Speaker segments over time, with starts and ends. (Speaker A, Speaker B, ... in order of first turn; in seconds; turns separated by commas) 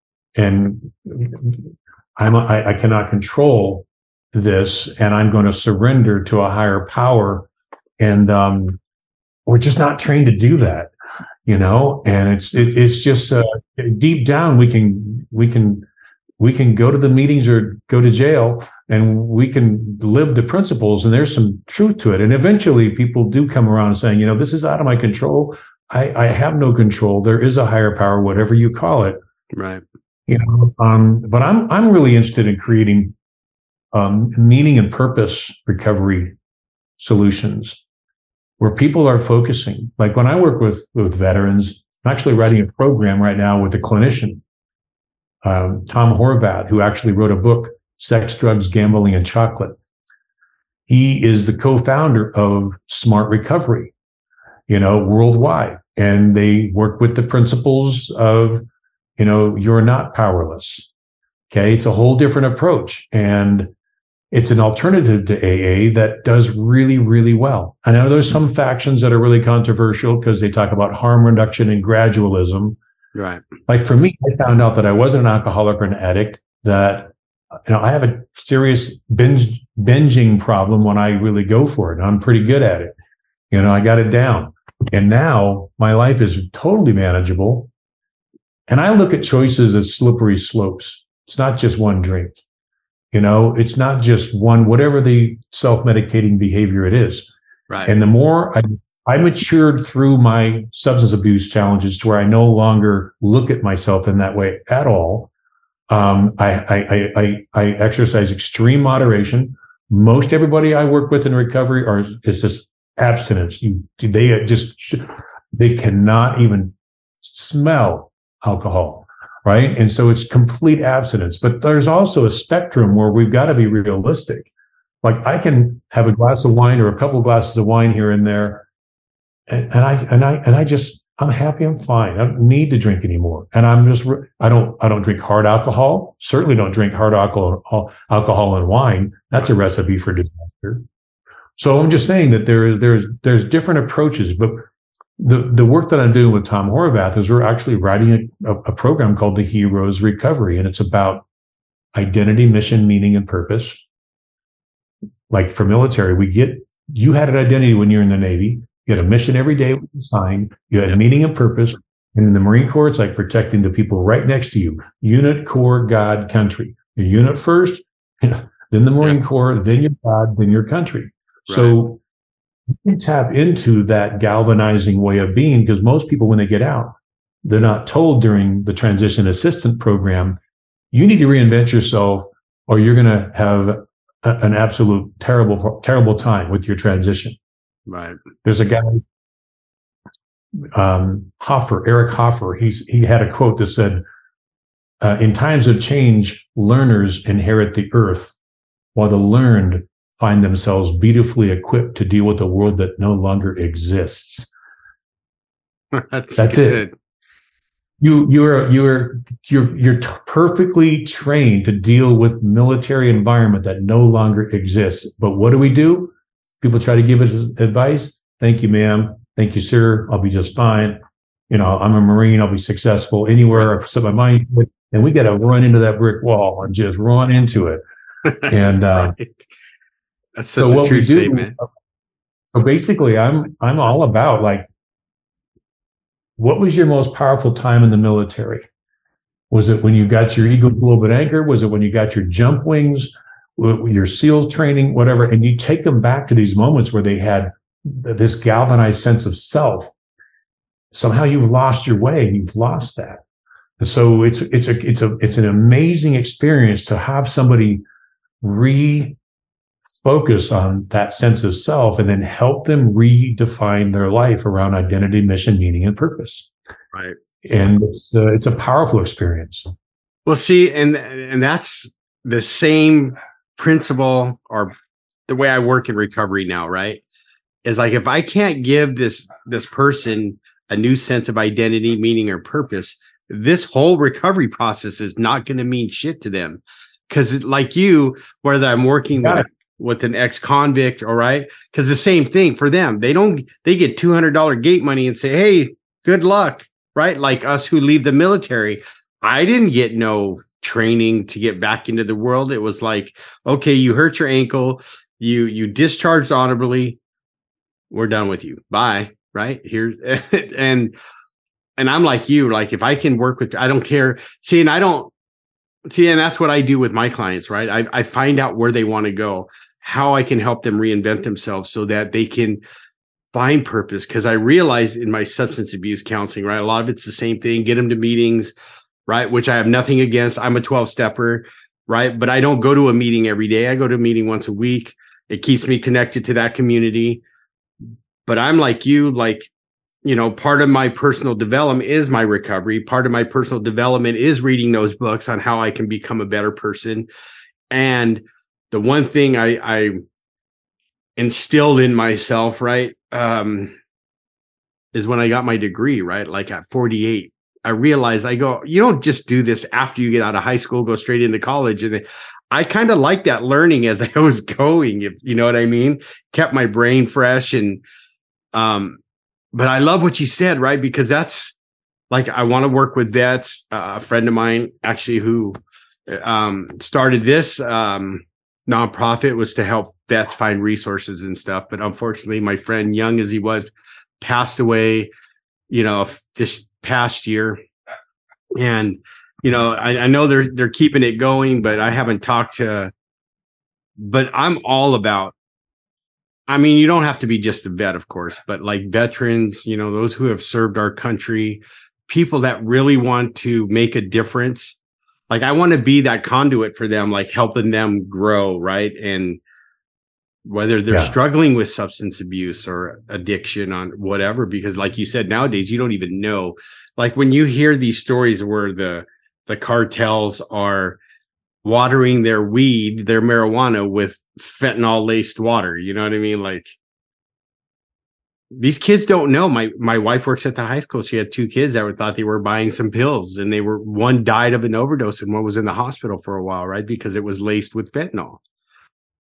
Speaker A: 0.3-7.5, Speaker A: 8.0-8.8, Speaker A: 9.4-10.9, Speaker A: 11.4-15.9, Speaker A: 16.4-29.2, Speaker B: 29.5-29.8, Speaker A: 30.3-33.1, Speaker A: 33.9-36.3, Speaker A: 37.0-37.8, Speaker A: 38.6-44.4, Speaker A: 45.4-49.7, Speaker A: 50.9-53.9, Speaker A: 54.7-58.6, Speaker A: 59.2-60.9, Speaker A: 61.5-63.7, Speaker A: 64.3-72.8, Speaker B: 73.2-73.4, Speaker A: 73.7-77.1, Speaker A: 77.7-82.9, Speaker A: 83.5-87.7, Speaker A: 88.7-92.4, Speaker A: 93.1-97.3, Speaker A: 97.8-105.3, Speaker A: 105.9-124.5, Speaker A: 125.0-128.7, Speaker A: 129.5-140.8, Speaker A: 141.6-144.6, Speaker A: 145.2-151.2, Speaker A: 151.9-153.8, Speaker A: 155.3-172.0, Speaker B: 171.5-171.8, Speaker A: 172.7-180.4, Speaker A: 180.9-187.4, Speaker B: 187.9-188.2, Speaker A: 188.4-189.0, Speaker A: 190.7-194.0, Speaker A: 195.0-198.3, Speaker A: 198.9-204.5, Speaker B: 205.9-206.9, Speaker A: 206.3-206.8, Speaker A: 208.0-221.0, Speaker A: 221.5-227.8, Speaker B: 228.2-229.4, Speaker A: 228.5-229.2, Speaker B: 230.3-231.5, Speaker A: 230.6-231.7, Speaker A: 232.5-234.7, Speaker A: 236.4-238.7, Speaker A: 239.5-249.9, Speaker A: 250.9-253.2, Speaker A: 253.8-257.8, Speaker A: 258.4-259.2, Speaker A: 260.0-266.5, Speaker A: 267.4-269.7, Speaker B: 270.2-274.7, Speaker B: 275.3-277.0, Speaker B: 277.6-307.0, Speaker B: 307.9-310.9, Speaker B: 311.8-315.1, Speaker B: 315.9-322.6, Speaker B: 323.3-328.5, Speaker B: 329.1-337.2, Speaker B: 338.2-339.4, Speaker B: 340.0-347.1, Speaker B: 347.7-350.0, Speaker B: 351.2-353.7, Speaker B: 354.9-367.8, Speaker B: 368.5-369.0, Speaker B: 369.5-371.6, Speaker B: 372.1-383.7, Speaker B: 384.2-385.1, Speaker B: 385.7-387.6, Speaker B: 388.5-392.9, Speaker B: 394.0-395.3, Speaker B: 396.5-404.8, Speaker B: 405.3-409.4, Speaker B: 410.4-421.0, Speaker B: 421.6-426.8, Speaker B: 428.5-438.4